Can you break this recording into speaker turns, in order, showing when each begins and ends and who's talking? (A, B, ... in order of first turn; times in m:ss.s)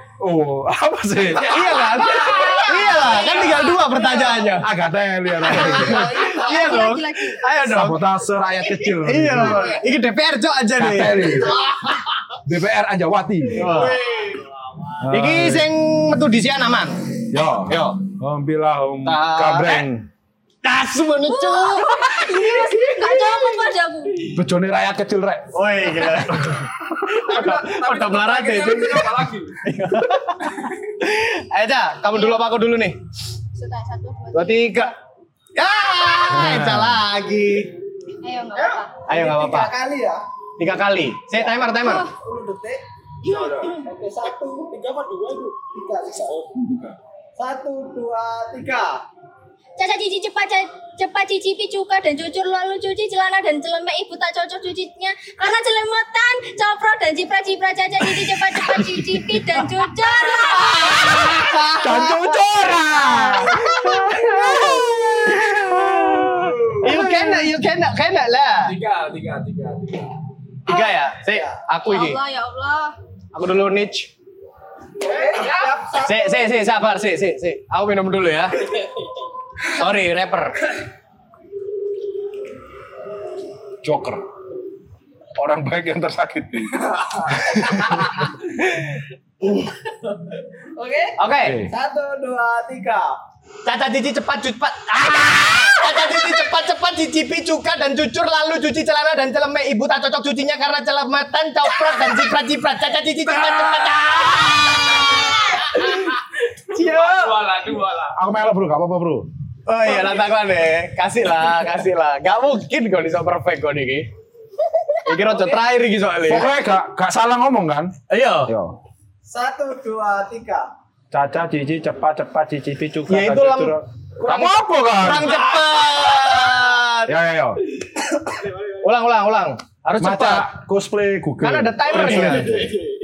0:00.2-0:01.7 A
0:01.4-0:04.7 B
0:02.2-0:03.9 C
0:02.2-0:03.6 D
0:04.5-0:06.2 A
0:05.4-0:08.0 B
0:05.7-0:07.4 C
0:07.7-0:09.8 A
0:08.9-0:11.6 B
0:10.8-0:11.6 A
0:12.4-0:13.8 A
0:13.5-0:14.0 B
0:13.8-0:14.2 D
0:13.9-0:14.3 E
0:15.0-0:15.7 A
0:15.1-0:17.0 B
0:17.3-0:20.1 A
0:17.6-0:18.0 B
0:19.0-0:19.8 B
0:20.6-0:22.8 B
0:21.2-0:24.2 C
0:24.3-0:25.6 A
0:25.5-0:33.0 B
0:26.3-0:26.7 A
0:27.2-0:29.6 D
0:32.1-0:32.4 C
0:33.5-0:34.9 C
0:34.3-0:34.9 B
0:35.6-0:37.7 B
0:35.9-0:36.2 C
0:36.3-0:37.0 A
0:38.2-0:38.9 C
0:38.5-0:40.2 E
0:39.1-0:39.7 B
0:40.6-0:42.1 B
0:41.3-0:42.8 E
0:41.8-0:42.1 C
0:43.2-0:43.8 C
0:43.3-0:43.7 D
0:43.6-0:46.8 E
0:47.4-0:49.0 E
0:49.8-1:01.6 C
1:00.1-1:02.4 B
1:01.7-1:04.6 A
1:03.0-1:05.6 B
1:03.9-1:04.9 C
1:05.3-1:07.3 A
1:06.8-1:08.7 B
1:08.6-1:10.1 D
1:10.6-1:12.2 B
1:11.8-1:13.0 C
1:13.3-1:14.1 B
1:15.0-1:16.5 E
1:16.0-1:18.7 B
1:19.6-1:20.7 B
1:23.8-1:24.2 A
1:25.4-1:28.2 A
1:30.8-1:31.1 E
1:31.2-1:31.6 B
1:31.4-1:31.7 A
1:31.7-1:33.1 E
1:33.6-1:47.4 B
1:43.4-1:44.0 D
1:46.7-1:48.2 D
1:48.1-1:49.3 A
1:49.6-1:54.1 B
1:55.0-1:56.5 B
1:56.2-1:57.9 A
1:58.1-1:58.5 B
1:58.4-1:58.8 A
1:59.3-2:00.7 E
2:01.1-2:05.4 A
2:03.1-2:07.1 B
2:07.1-2:07.6 A
2:08.8-2:10.5 B
2:10.0-2:12.7 A
2:11.4-2:12.7 B